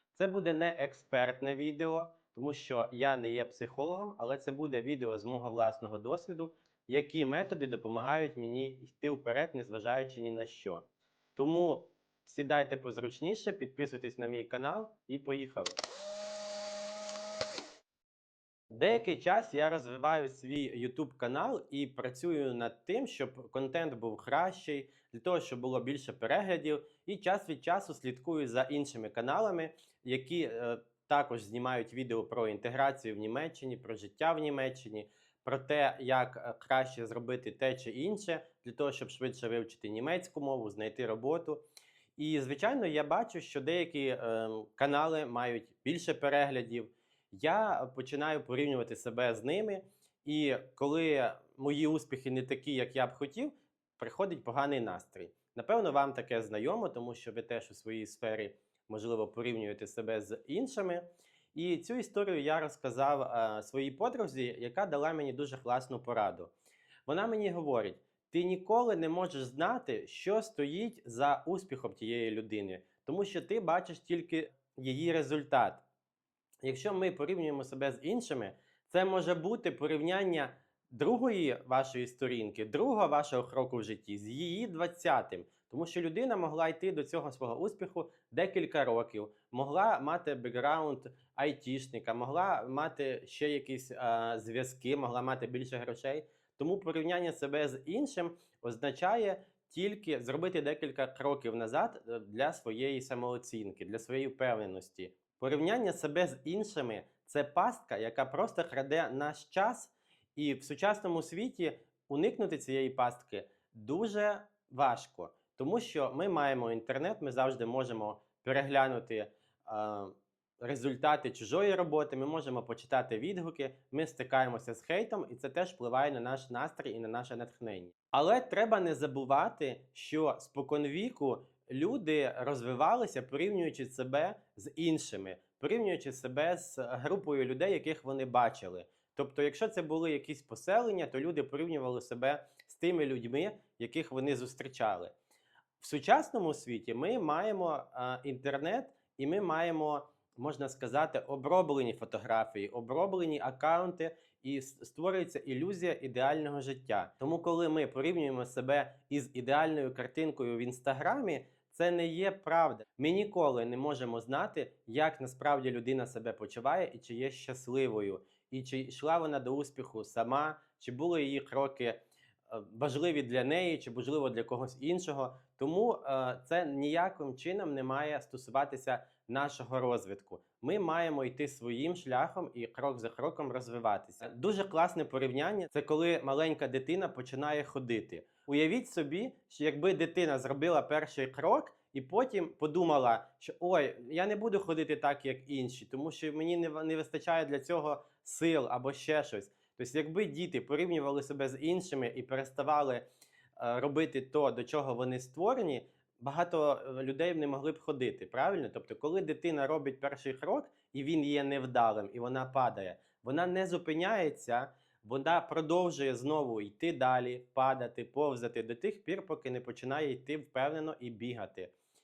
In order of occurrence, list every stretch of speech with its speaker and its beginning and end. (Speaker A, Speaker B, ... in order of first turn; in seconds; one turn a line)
Speaker A: 0.1-10.8
Speaker A: 11.4-15.8
Speaker A: 18.7-41.6
Speaker A: 42.2-66.5
Speaker A: 67.1-75.8
Speaker A: 76.6-145.1
Speaker A: 145.8-203.1
Speaker A: 203.6-221.7